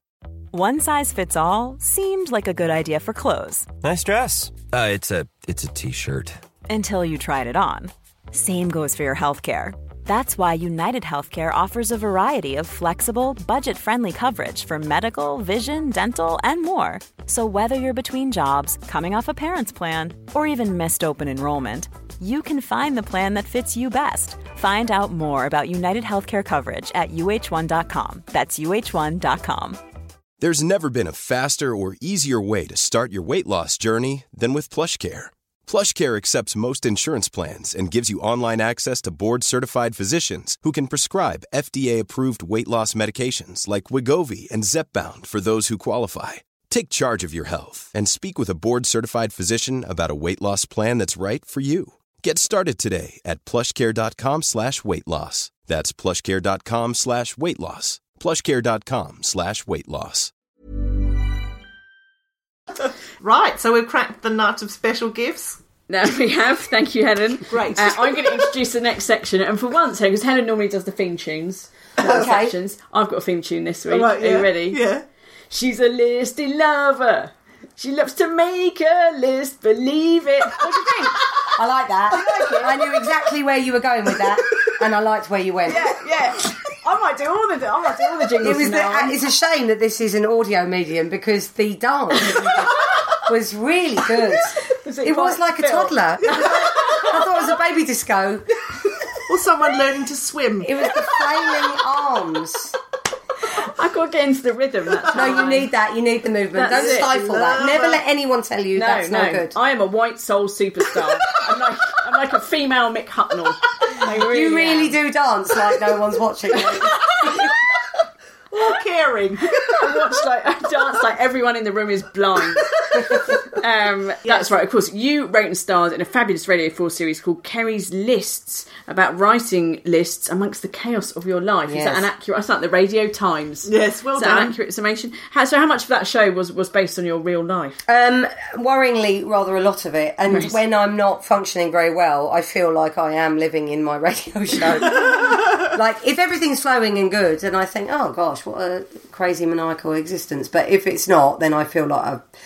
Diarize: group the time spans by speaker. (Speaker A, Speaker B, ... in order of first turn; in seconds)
Speaker A: 0.5-3.7, 6.7-29.8
Speaker B: 3.8-6.4
Speaker C: 30.4-60.3
Speaker D: 63.2-65.6, 67.5-68.5, 73.9-75.0, 96.4-97.0, 99.2-101.5, 106.7-108.0, 118.5-119.8, 122.9-123.4, 133.7-134.6, 145.1-145.4
Speaker E: 65.9-74.8, 75.5-81.2, 82.1-82.8, 85.7-89.2, 94.7-97.1, 103.5-105.7, 106.5-107.2, 108.8-115.0, 116.6-117.5, 119.6-122.7, 123.6-137.8
Speaker F: 72.0-72.5, 81.5-85.9, 88.4-98.5, 100.6-102.8, 105.1-109.6, 114.2-117.5, 131.7-132.1, 137.9-152.2